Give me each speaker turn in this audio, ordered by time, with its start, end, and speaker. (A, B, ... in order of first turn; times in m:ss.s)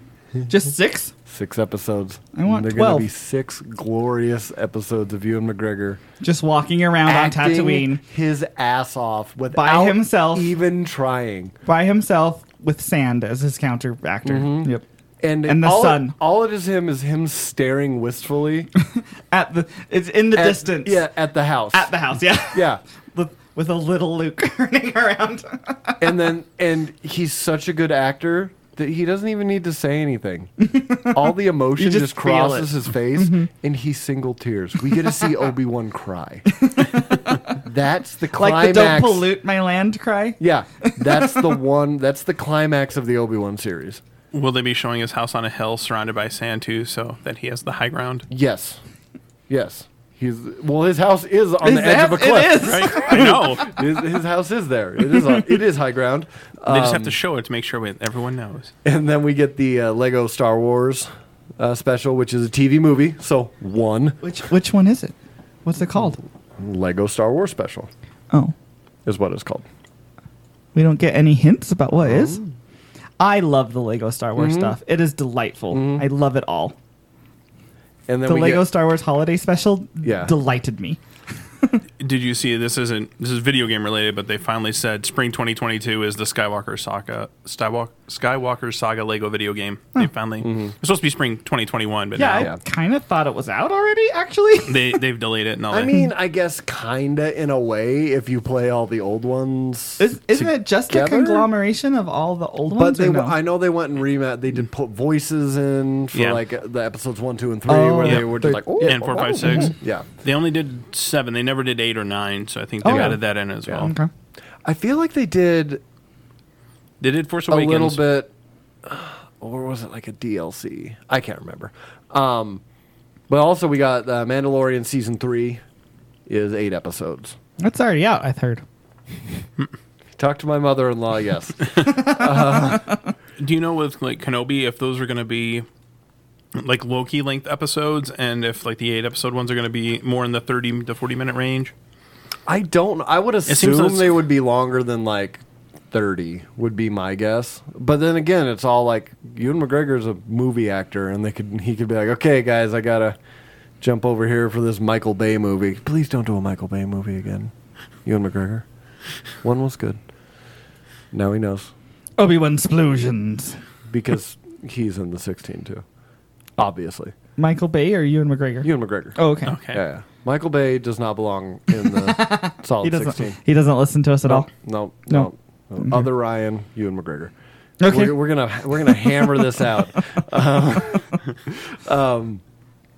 0:00.5-0:01.1 A
0:01.2-0:06.0 B
0:02.3-0:03.1 A
0:06.2-0:08.0 A
0:07.0-0:11.5 B
0:09.5-0:10.5 A
0:11.6-0:14.8 A
0:14.2-0:18.7 B
0:15.4-0:16.1 A
0:19.0-0:21.0 A
0:20.3-0:22.8 B
0:21.7-0:26.0 A
0:26.0-0:30.5 B
0:30.6-0:33.5 A
0:31.1-0:36.5 B
0:36.6-0:37.6 A
0:37.6-0:39.3 B
0:38.3-0:41.5 A
0:40.4-0:44.0 B
0:44.3-0:48.3 C
0:48.3-0:48.8 B
0:49.5-0:57.2 B
0:51.6-0:53.4 A
0:52.6-0:53.8 C
0:56.6-0:58.7 C
0:58.8-1:04.2 B
1:04.2-1:06.2 A
1:06.6-1:07.9 B
1:09.0-1:09.6 B
1:10.7-1:12.4 A
1:12.0-1:12.4 B
1:13.2-1:16.7 A
1:14.4-1:14.8 B
1:15.7-1:16.0 B
1:18.1-1:18.6 B
1:18.2-1:21.0 A
1:20.0-1:20.3 B
1:22.0-1:32.5 C
1:30.4-1:30.7 B
1:32.2-1:35.0 A
1:34.7-1:36.0 C
1:35.7-1:41.5 B
1:40.0-1:43.4 A
1:42.7-1:50.0 B
1:46.1-1:46.4 C
1:47.7-1:49.7 A
1:48.0-1:53.9 C
1:52.8-1:53.2 A
1:52.8-1:53.9 B
1:53.8-1:54.1 A
1:54.6-1:55.8 B
1:57.0-1:58.0 C
1:57.5-1:58.3 B
1:58.8-2:02.6 B
2:03.3-2:05.6 B
2:06.3-2:07.4 B
2:07.6-2:08.6 A
2:10.2-2:13.0 B
2:13.4-2:15.6 C
2:16.5-2:21.7 C
2:22.5-2:33.2 B
2:23.5-2:24.2 C
2:33.8-2:37.5 B
2:38.0-2:38.6 B
2:39.4-2:40.0 B
2:41.1-2:41.7 B
2:42.2-2:43.6 A
2:43.9-2:45.8 B
2:46.6-2:47.1 B
2:47.4-2:49.5 A
2:48.6-2:53.4 B
2:49.4-2:49.8 C
2:52.0-2:54.5 A
2:54.2-2:57.3 B
2:55.8-2:56.0 A
2:57.8-2:58.2 A
2:57.8-3:02.4 B
2:58.8-2:59.3 A